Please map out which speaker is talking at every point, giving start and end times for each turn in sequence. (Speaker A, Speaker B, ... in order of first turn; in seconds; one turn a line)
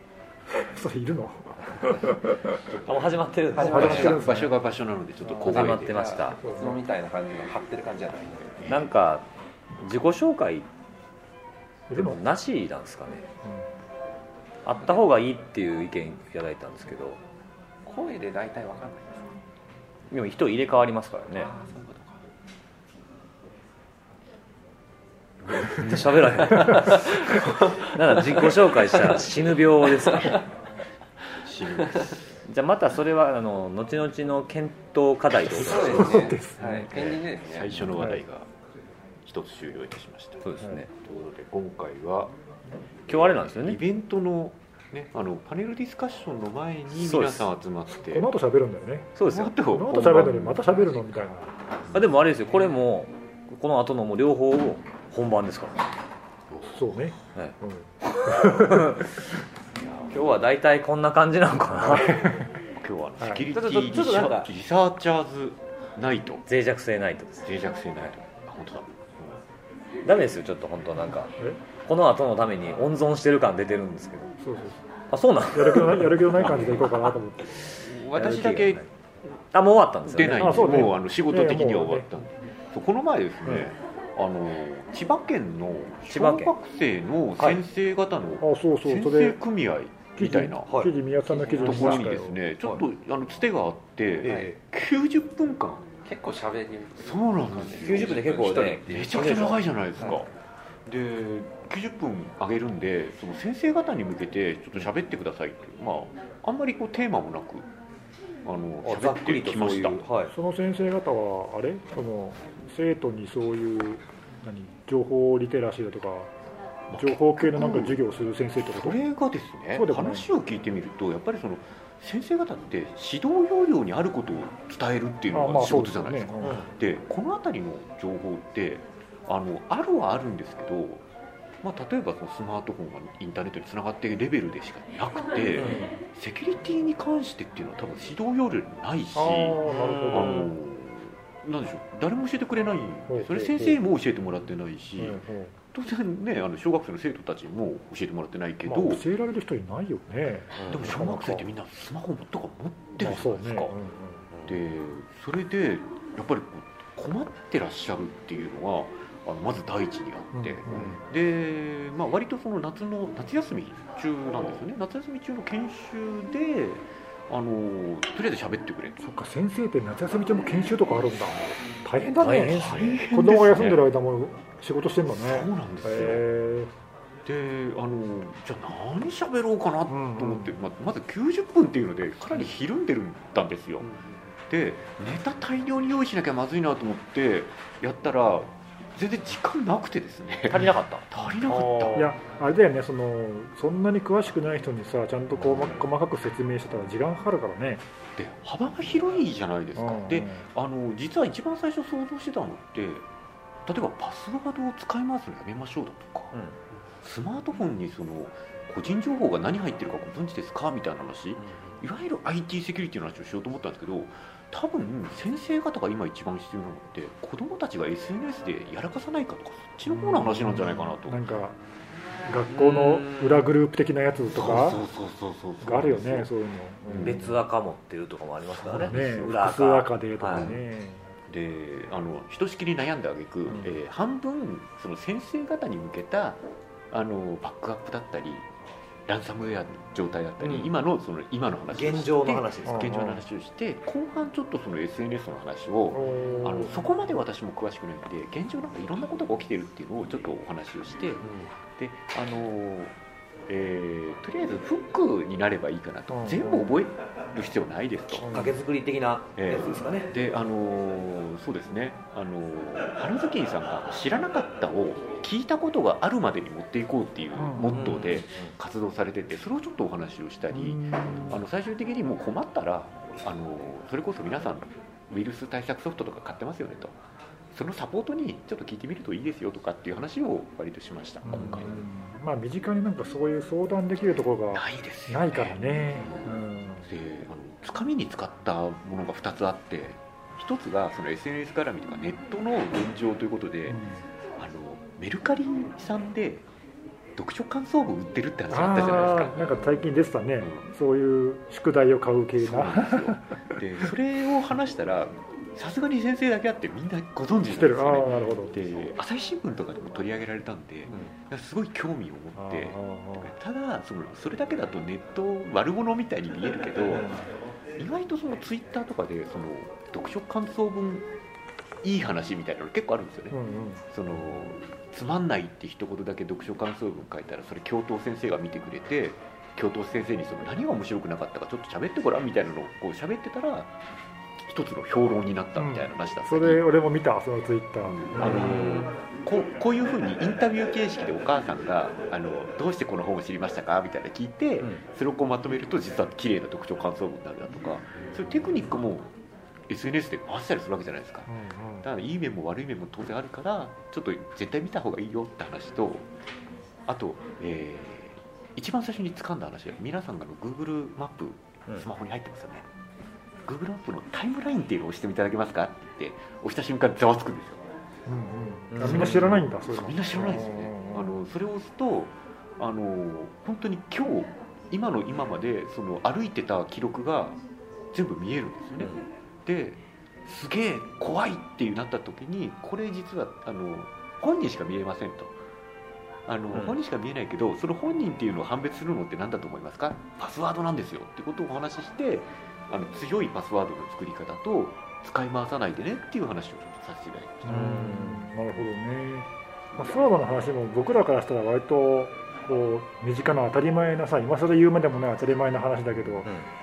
Speaker A: 0.5-2.6
Speaker B: 2.9-4.2
Speaker C: 3.6-4.3
Speaker A: 3.6-4.5
Speaker D: 3.7-6.1
Speaker C: 5.3-8.7
Speaker B: 5.5-6.4
Speaker A: 6.4-6.8
Speaker D: 8.6-8.9
Speaker B: 8.7-9.2
Speaker B: 9.8-10.7
Speaker A: 11.9-12.2
Speaker B: 11.9-13.2
Speaker B: 14.6-17.2
Speaker C: 17.8-19.4
Speaker B: 20.1-21.5
Speaker C: 21.3-22.2
Speaker B: 25.6-30.4
Speaker C: 26.6-30.4
Speaker D: 31.4-32.2
Speaker B: 32.5-36.4
Speaker C: 35.4-37.7
Speaker A: 35.5-36.9
Speaker D: 36.9-38.5
Speaker D: 39.2-42.3
Speaker B: 40.4-40.9
Speaker D: 43.1-48.3
Speaker B: 43.1-43.8
Speaker B: 47.0-47.5
Speaker A: 47.9-49.1
Speaker B: 49.2-49.5
Speaker D: 49.3-51.0
Speaker A: 49.8-51.5
Speaker B: 51.9-55.9
Speaker D: 56.5-56.8
Speaker A: 56.7-59.1
Speaker B: 58.1-59.2
Speaker D: 59.8-60.4
Speaker B: 60.1-62.5
Speaker A: 62.0-62.5
Speaker D: 62.8-66.5
Speaker A: 63.2-63.5
Speaker B: 63.5-64.5
Speaker B: 66.5-68.1
Speaker D: 67.4-69.4
Speaker B: 70.0-71.3
Speaker B: 71.8-74.3
Speaker A: 74.4-74.8
Speaker B: 75.1-78.9
Speaker A: 75.5-77.7
Speaker D: 77.8-78.8
Speaker B: 79.5-80.9
Speaker D: 80.1-90.7
Speaker A: 80.3-82.1
Speaker B: 86.1-86.5
Speaker A: 88.4-89.4
Speaker A: 90.2-92.4
Speaker B: 90.7-92.8
Speaker D: 91.6-95.9
Speaker B: 94.2-94.6
Speaker C: 96.0-100.2
Speaker D: 97.0-98.2
Speaker B: 97.8-99.6
Speaker D: 98.9-100.3
Speaker D: 100.9-107.7
Speaker D: 108.5-110.1
Speaker B: 108.8-110.3
Speaker A: 110.3-116.3
Speaker D: 116.9-118.0
Speaker A: 117.0-119.0
Speaker D: 118.6-131.1
Speaker A: 119.7-120.3
Speaker A: 125.3-126.6
Speaker B: 126.4-126.7
Speaker D: 131.6-149.0
Speaker B: 135.6-136.0
Speaker A: 139.1-140.5
Speaker A: 143.1-143.8
Speaker A: 145.0-145.5
Speaker A: 148.7-151.5
Speaker D: 150.7-153.8
Speaker A: 153.0-154.2
Speaker D: 154.4-169.0
Speaker A: 160.3-161.0
Speaker B: 160.7-161.0
Speaker A: 169.0-176.7
Speaker B: 172.2-172.8
Speaker D: 172.5-173.8
Speaker D: 175.1-176.2
Speaker D: 177.2-183.9
Speaker A: 179.9-180.6
Speaker D: 184.5-192.1
Speaker B: 190.5-192.1
Speaker A: 191.9-197.8
Speaker D: 195.4-195.8
Speaker D: 198.2-203.1
Speaker A: 199.8-200.4
Speaker D: 203.7-206.4
Speaker B: 206.3-206.6
Speaker D: 207.0-221.2
Speaker B: 211.4-211.8
Speaker A: 219.9-221.6
Speaker A: 222.3-224.8
Speaker B: 222.5-223.5
Speaker D: 224.3-226.3
Speaker A: 225.6-227.4
Speaker D: 226.8-227.3
Speaker B: 226.9-230.5
Speaker D: 228.6-229.4
Speaker A: 228.8-231.2
Speaker D: 230.3-230.6
Speaker D: 231.3-238.5
Speaker D: 239.1-251.2
Speaker B: 240.4-240.7
Speaker B: 241.7-242.9
Speaker A: 242.7-243.2
Speaker A: 245.9-246.9
Speaker D: 251.8-252.9
Speaker D: 253.5-258.3
Speaker A: 256.1-256.7
Speaker A: 258.2-258.6
Speaker B: 258.2-260.1
Speaker D: 259.4-277.0
Speaker A: 267.4-267.7
Speaker B: 267.7-268.6
Speaker A: 270.5-271.4
Speaker D: 277.5-281.8
Speaker A: 281.2-286.9
Speaker D: 284.5-286.3
Speaker D: 286.9-293.8
Speaker A: 293.7-294.0
Speaker D: 294.4-296.5
Speaker D: 297.2-299.9
Speaker A: 298.5-303.3
Speaker D: 300.4-300.7
Speaker D: 302.4-317.1
Speaker A: 307.4-308.6
Speaker A: 312.4-313.3
Speaker D: 317.8-321.1
Speaker D: 321.8-323.4
Speaker A: 323.3-323.8
Speaker D: 323.9-333.8
Speaker D: 334.4-336.6
Speaker A: 335.6-338.5
Speaker D: 337.8-349.1
Speaker B: 338.2-338.9
Speaker D: 349.7-356.1
Speaker A: 351.3-351.9
Speaker D: 356.9-362.7
Speaker D: 363.4-367.6
Speaker A: 368.1-371.1
Speaker B: 368.7-369.4
Speaker D: 368.8-377.4
Speaker D: 377.9-385.4
Speaker D: 386.3-397.7
Speaker B: 386.5-386.8
Speaker A: 397.4-406.3
Speaker B: 397.5-398.2